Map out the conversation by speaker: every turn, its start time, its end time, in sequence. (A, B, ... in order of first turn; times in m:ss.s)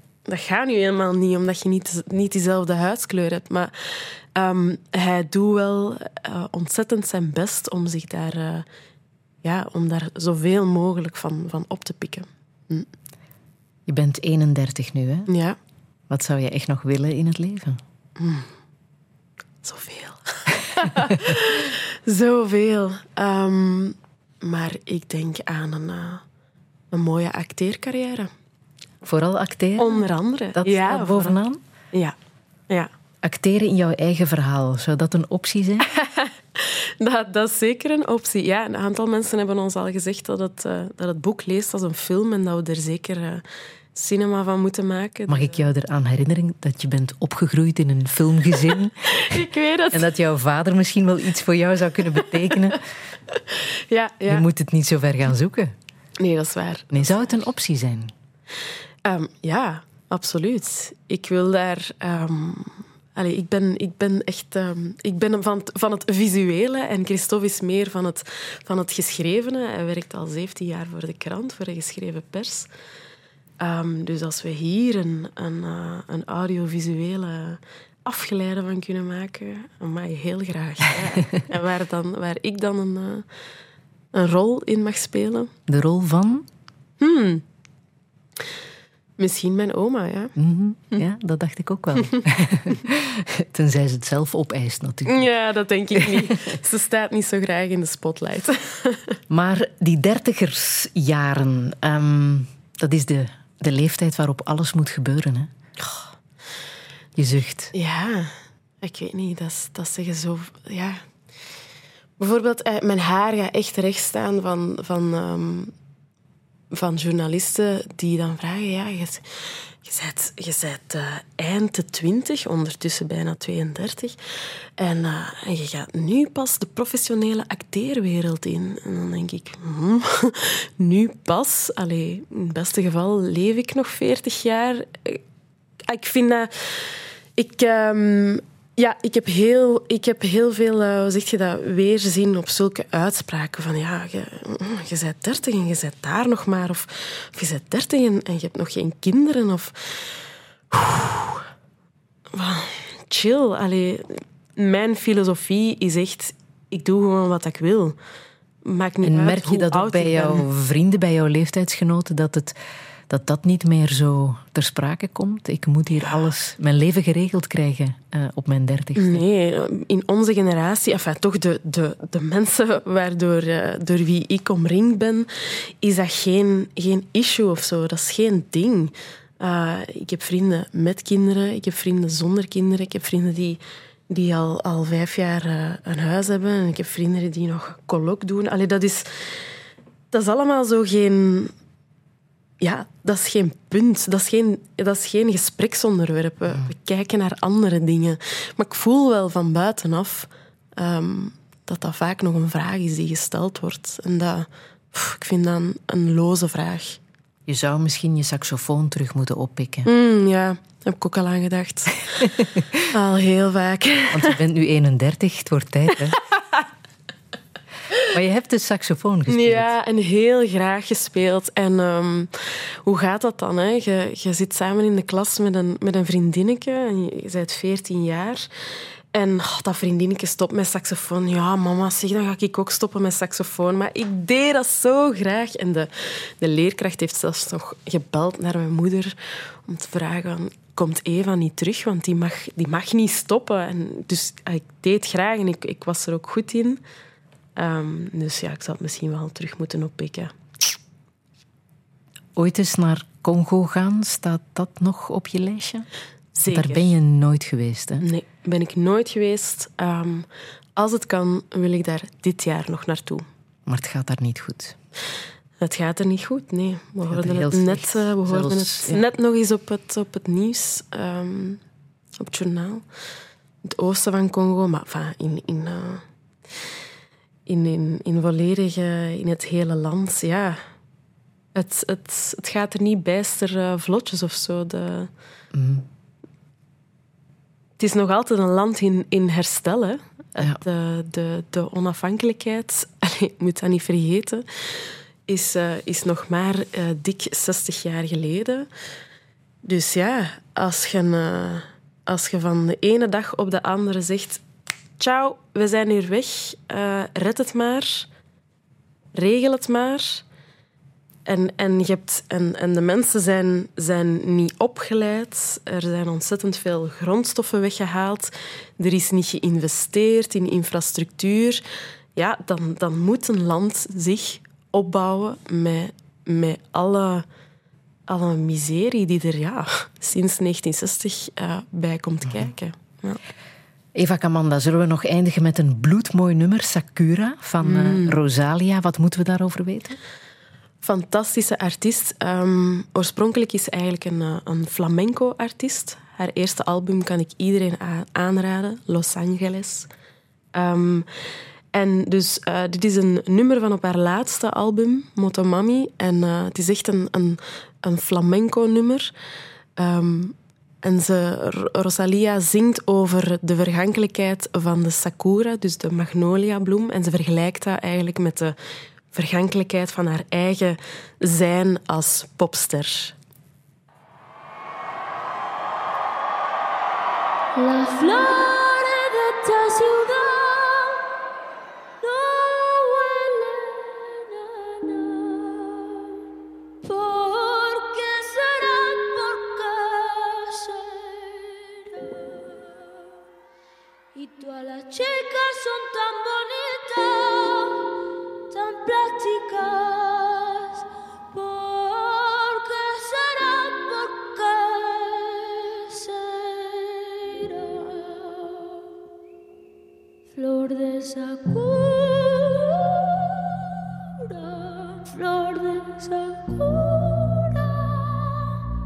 0:00.3-0:08.6 A
0:09.4-0:12.9 A
0:13.9-0:15.3 B
0:15.3-0:15.6 A
0:16.1-0:17.8 B
0:18.2-0:18.5 A
0:19.6-0:26.2 A
0:26.9-0:28.3 A
0:29.0-0:31.6 B
0:29.8-0:31.4 A
0:33.2-0:35.9 B
0:36.0-0:43.4 A
0:44.0-0:45.5 A
0:45.3-0:52.8 B
0:49.2-0:50.1 A
0:53.5-0:54.4 A
0:54.3-0:55.7 B
0:56.2-0:57.3 A
0:56.9-0:58.1 B
0:59.0-1:12.7 A
1:13.6-1:23.3 A
1:24.1-1:25.5 A
1:25.7-1:26.5 B
1:27.0-1:27.4 A
1:29.2-1:30.3 A
1:30.4-1:35.3 B
1:35.1-1:39.2 A
1:36.0-1:36.6 B
1:39.3-1:45.5 B
1:47.2-1:47.7 B
1:47.7-1:51.0 A
1:52.2-1:55.7 A
1:56.7-1:59.2 A
1:59.8-2:04.2 A
2:04.8-2:15.2 A
2:15.9-2:30.1 A
2:30.7-2:31.4 A
2:32.3-2:38.0 A
2:38.6-2:40.4 A
2:39.0-2:42.6 B
2:43.1-2:49.2 B
2:49.0-2:55.3 A
2:55.8-3:09.4 A
3:10.1-3:11.5 A
3:12.6-3:27.0 A
3:27.5-3:29.9 B
3:29.9-3:34.4 A
3:32.4-3:32.8 B
3:34.1-3:36.2 B
3:38.1-3:39.7 B
3:39.3-3:42.3 A
3:42.9-3:48.5 A
3:49.1-3:59.2 A
3:59.7-4:06.8 A
4:07.6-4:10.3 A
4:12.4-4:15.9 B
4:16.4-4:16.9 A
4:16.5-4:18.1 B
4:18.0-4:23.2 A
4:23.7-4:24.8 B
4:25.6-4:31.6 A
4:27.1-4:29.0 B
4:32.2-4:32.8 A
4:33.6-4:36.0 A
4:37.5-4:40.6 A
4:41.6-4:45.1 A
4:45.5-4:45.9 B
4:47.8-4:58.7 A
4:59.6-5:04.4 A
5:05.0-5:08.1 A
5:09.2-5:10.2 A
5:11.3-5:21.6 A
5:22.2-5:27.3 A
5:28.1-5:33.2 A
5:34.0-5:40.0 B
5:37.6-5:38.2 A
5:40.8-5:49.9 A
5:50.6-5:51.1 A
5:51.7-5:59.1 A
5:59.8-6:08.6 A
6:09.1-6:13.2 A
6:17.6-6:21.0 C
6:22.0-6:26.0 C
6:26.8-6:32.7 C
6:34.2-6:37.8 C
6:38.5-6:40.8 C
6:41.3-6:48.8 C
6:50.4-6:52.9 C
6:54.3-6:58.5 C